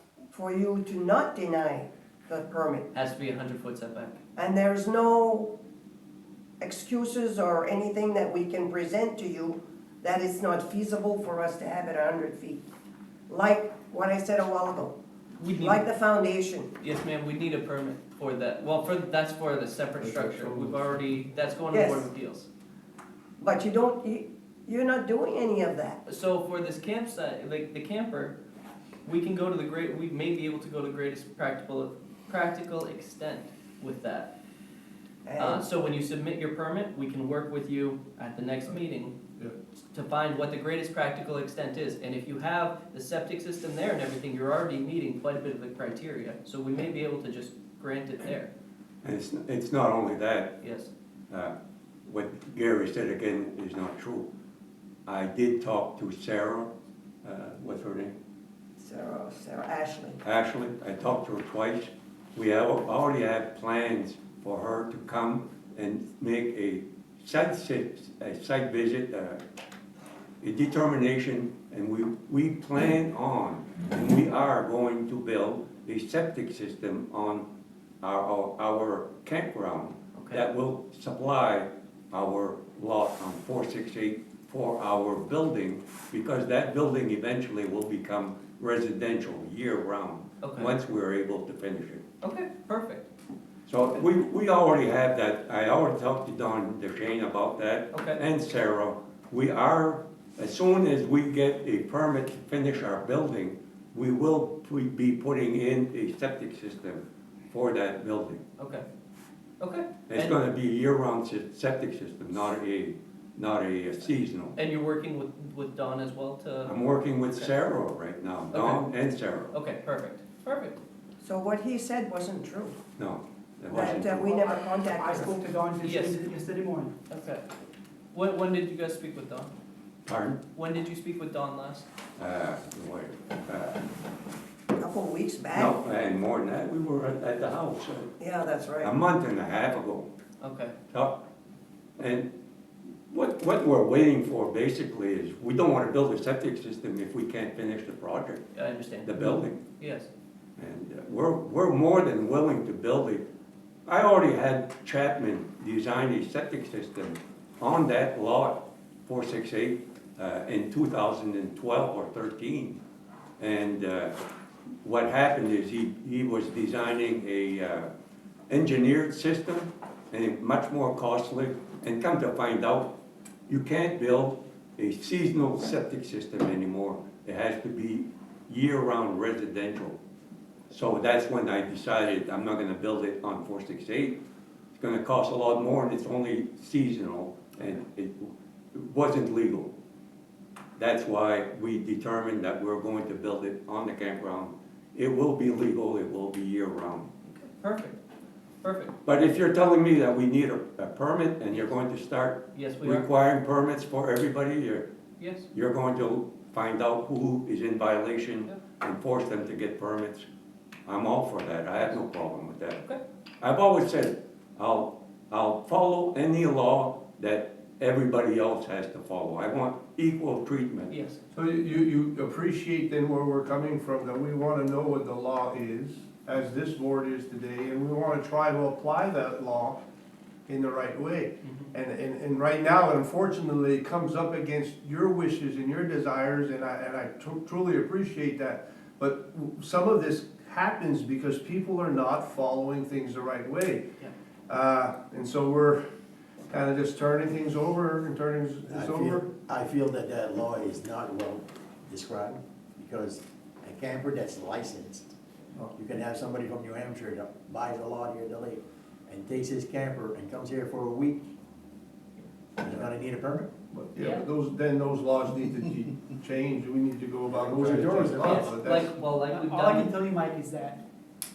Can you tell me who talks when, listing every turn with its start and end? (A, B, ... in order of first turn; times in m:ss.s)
0:00.3-0:02.9 A
0:02.9-0:04.2 B
0:04.4-0:05.5 A
0:06.6-0:12.6 A
0:13.3-0:15.0 A
0:15.4-0:15.8 B
0:15.6-0:16.7 A
0:16.8-0:22.5 B
0:20.0-0:20.7 C
0:21.7-0:22.1 A
0:23.4-0:26.0 A
0:26.1-0:28.4 B
0:29.0-0:34.3 B
0:35.2-0:35.7 A
0:35.4-0:39.2 B
0:39.9-0:48.5 B
0:49.0-0:50.6 D
0:50.6-0:50.9 B
0:52.1-0:54.3 D
0:55.1-0:56.7 D
0:57.2-0:58.2 D
0:58.8-1:00.2 A
1:00.2-1:09.4 D
1:10.4-1:17.5 D
1:18.0-1:32.0 D
1:20.2-1:20.5 B
1:30.4-1:30.8 B
1:32.2-1:33.1 B
1:33.7-1:48.4 D
1:37.9-1:38.2 B
1:48.6-1:48.8 B
1:49.6-1:50.4 B
1:50.1-1:54.6 D
1:54.6-1:57.6 B
1:56.7-1:59.5 D
1:58.5-1:58.9 B
1:59.5-2:00.8 B
2:01.2-2:02.8 A
2:03.0-2:04.3 D
2:03.7-2:05.4 A
2:04.2-2:06.9 E
2:05.8-2:06.3 B
2:07.1-2:07.5 B
2:08.1-2:09.5 B
2:10.1-2:10.4 D
2:10.5-2:11.9 B
2:12.2-2:13.8 D
2:14.8-2:15.8 A
2:15.5-2:18.1 D
2:18.2-2:18.9 A
2:18.8-2:20.1 D
2:20.4-2:20.7 B
2:20.9-2:21.2 D
2:22.0-2:22.3 D
2:23.1-2:28.4 D
2:28.6-2:30.1 B
2:29.0-2:29.6 D
2:30.6-2:33.2 D
2:33.9-2:42.8 D
2:43.4-2:44.2 D
2:44.8-2:47.9 D
2:48.5-2:52.9 D
2:53.5-3:00.0 D
3:00.7-3:04.2 D
3:04.8-3:09.7 D
3:10.8-3:17.1 D
3:17.3-3:18.0 B
3:18.6-3:19.0 B
3:19.1-3:24.9 D
3:22.6-3:23.0 B
3:25.2-3:25.5 B
3:25.6-3:30.3 D
3:30.9-3:32.8 D
3:33.4-3:40.9 D
3:40.9-3:41.2 B
3:41.3-3:49.8 C
3:50.5-4:03.8 C
4:04.5-4:05.8 C
4:06.5-4:09.2 C
4:08.7-4:15.1 F
4:15.7-4:21.3 F
4:22.6-4:23.5 F
4:23.7-4:29.0 C
4:24.0-4:24.3 B
4:27.3-4:28.6 F
4:28.2-4:30.0 B
4:29.2-4:30.8 E